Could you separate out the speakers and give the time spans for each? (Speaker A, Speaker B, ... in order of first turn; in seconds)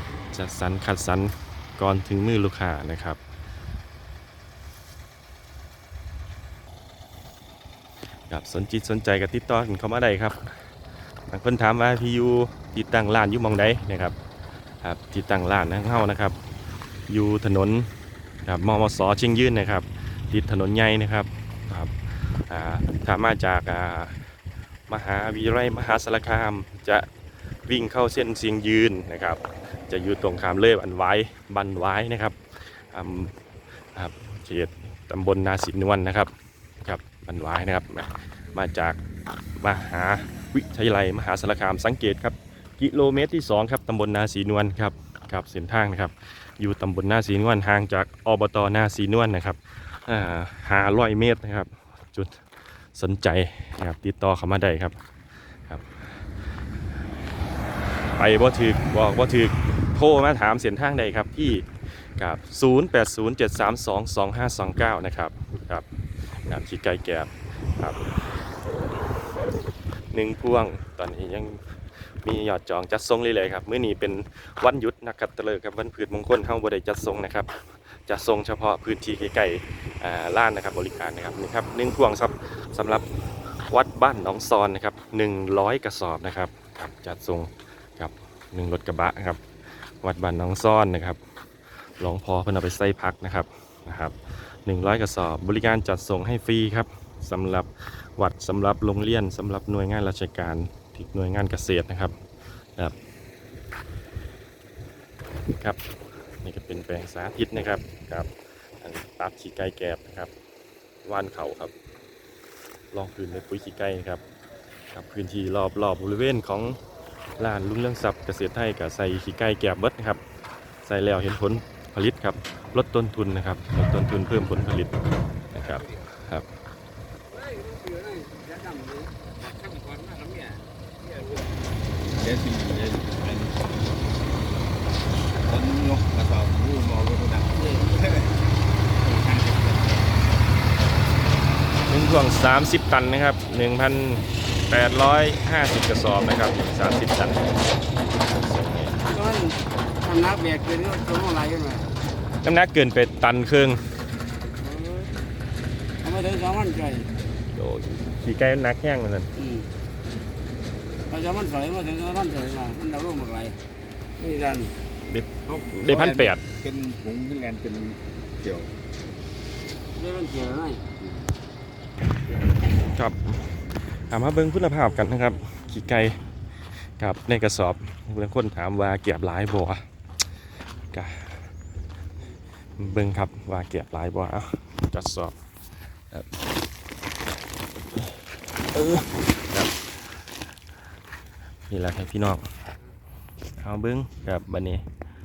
Speaker A: 0.3-3.2, 8.3-10.6, 11.3-14.2, 14.8-16.4, 17.1-17.9, 18.4-24.3, 24.9-27.1, 27.6-33.3, 33.9-39.0, 39.6-52.4, 52.9-55.0, 58.1-65.8, 66.4-68.0, 70.1-71.6, 72.2-83.1, 83.6-89.4, 90.0-91.2, 92.0-102.1, 106.4-110.3, 111.0-111.7, 112.9-114.2, 114.9-116.8, 117.4-120.2, 120.8-124.9, 125.5-126.5, 141.9-149.0, 152.4-153.8, 157.5-159.3, 165.1-166.4, 172.9-173.4, 174.1-176.2, 177.0-179.8, 180.9-181.5, 182.8-185.3, 188.7-189.8, 191.7-192.5, 193.6-194.8
Speaker B: 127.4-130.6, 149.1-151.9, 154.6-155.1, 156.0-157.1, 159.4-159.7, 161.1-163.6, 164.2-164.7, 169.9-171.2
Speaker C: 132.1-133.8, 135.4-138.3, 139.0-140.2, 165.5-168.7